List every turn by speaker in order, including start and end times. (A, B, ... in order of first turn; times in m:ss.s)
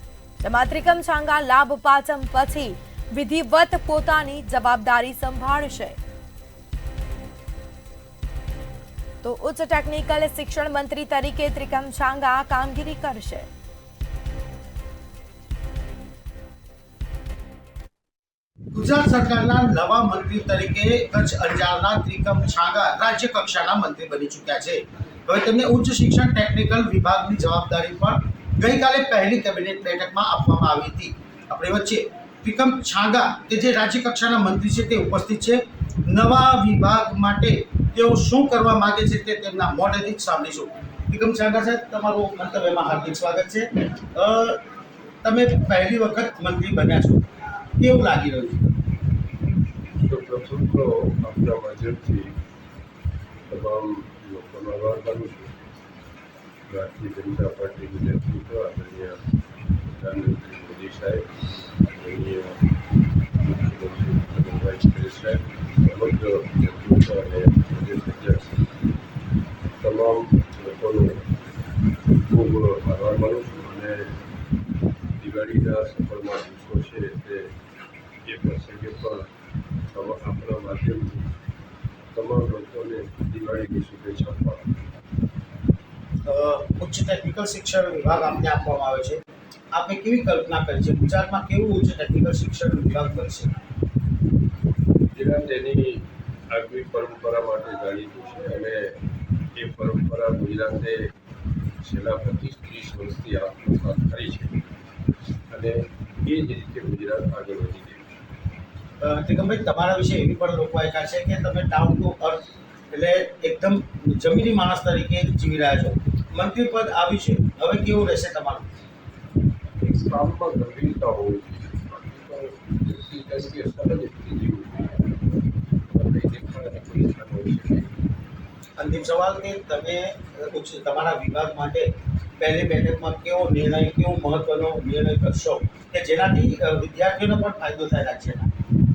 0:00.4-0:06.0 A
0:09.2-0:13.5 A
0:18.7-0:44.6 B
0:45.2-0:48.8 B
0:50.0-0:52.4 C
0:53.5-0:55.5 C
0:56.7-0:59.2 C
1:00.0-1:01.3 C
1:01.8-1:02.7 C
1:03.4-1:08.6 C
1:09.8-1:11.3 C
1:12.3-1:14.2 C
1:15.2-1:17.5 C
1:18.2-1:19.3 C
1:19.9-1:21.3 C
1:22.1-1:24.7 C
1:26.2-1:29.2 B
1:29.7-1:33.5 B
1:35.1-1:39.0 C
1:39.6-1:41.1 C
1:41.8-1:44.6 C
1:45.5-1:48.0 C
1:49.0-1:58.7 B
1:59.8-2:05.1 C
2:05.9-2:07.9 C
2:08.8-2:18.5 B